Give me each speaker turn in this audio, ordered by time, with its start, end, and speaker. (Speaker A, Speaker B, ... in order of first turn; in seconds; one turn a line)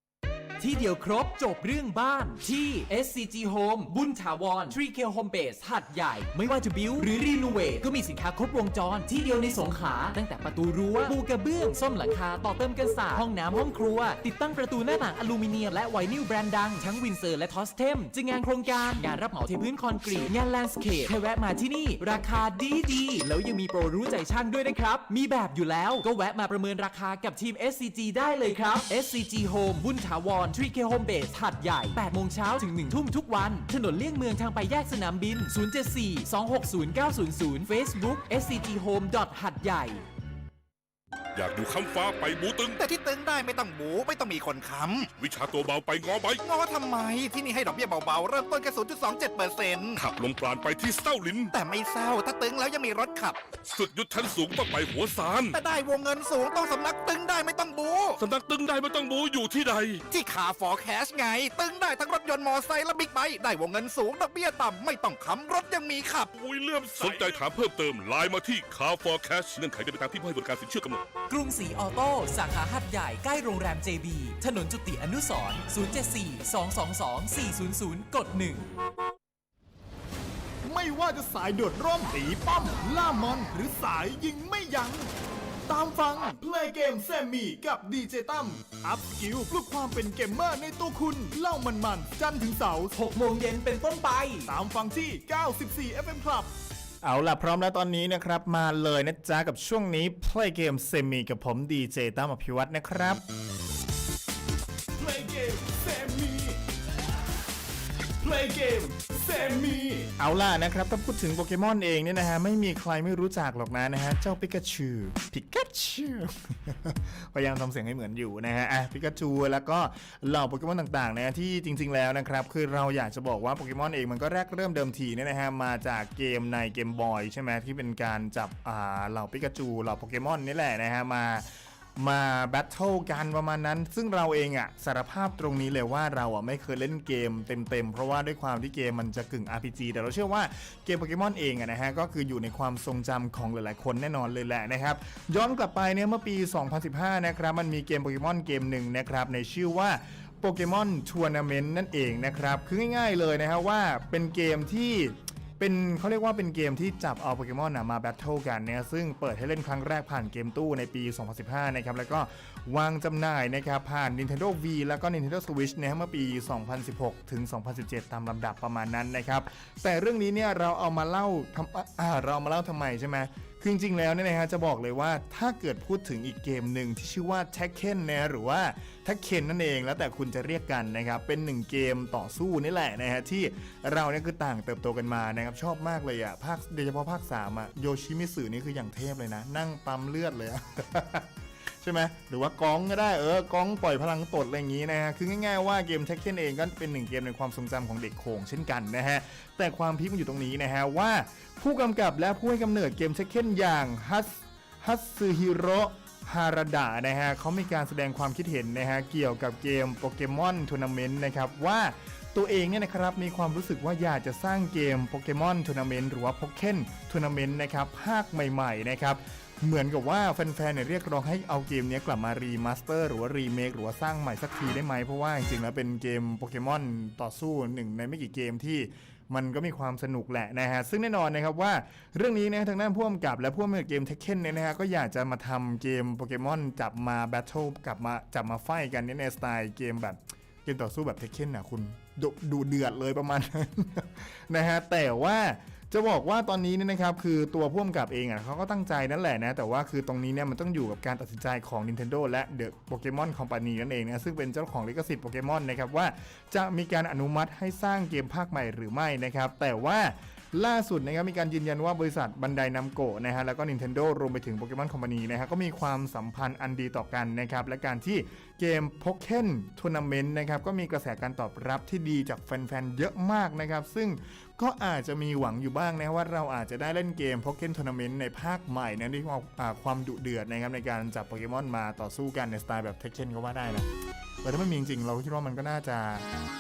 Speaker A: 0.6-40.0
Speaker B: 41.3-42.8
Speaker C: 42.8-45.1
Speaker B: 45.2-46.4
Speaker C: 46.4-50.0
Speaker B: 50.0-51.5
Speaker C: 51.5-53.4
Speaker B: 53.6-55.6
Speaker C: 55.5-58.2
Speaker B: 58.2-60.0
Speaker C: 60.1-66.3
Speaker B: 66.4-71.0
Speaker A: 71.3-78.7
Speaker D: 80.6-85.1
Speaker D: 85.7-93.0
Speaker A: 92.9-94.5
Speaker D: 94.5-96.5
Speaker D: 97.0-103.2
Speaker D: 105.0-106.5
Speaker D: 108.2-191.3
Speaker D: 191.8-283.9
Speaker D: 284.4-286.2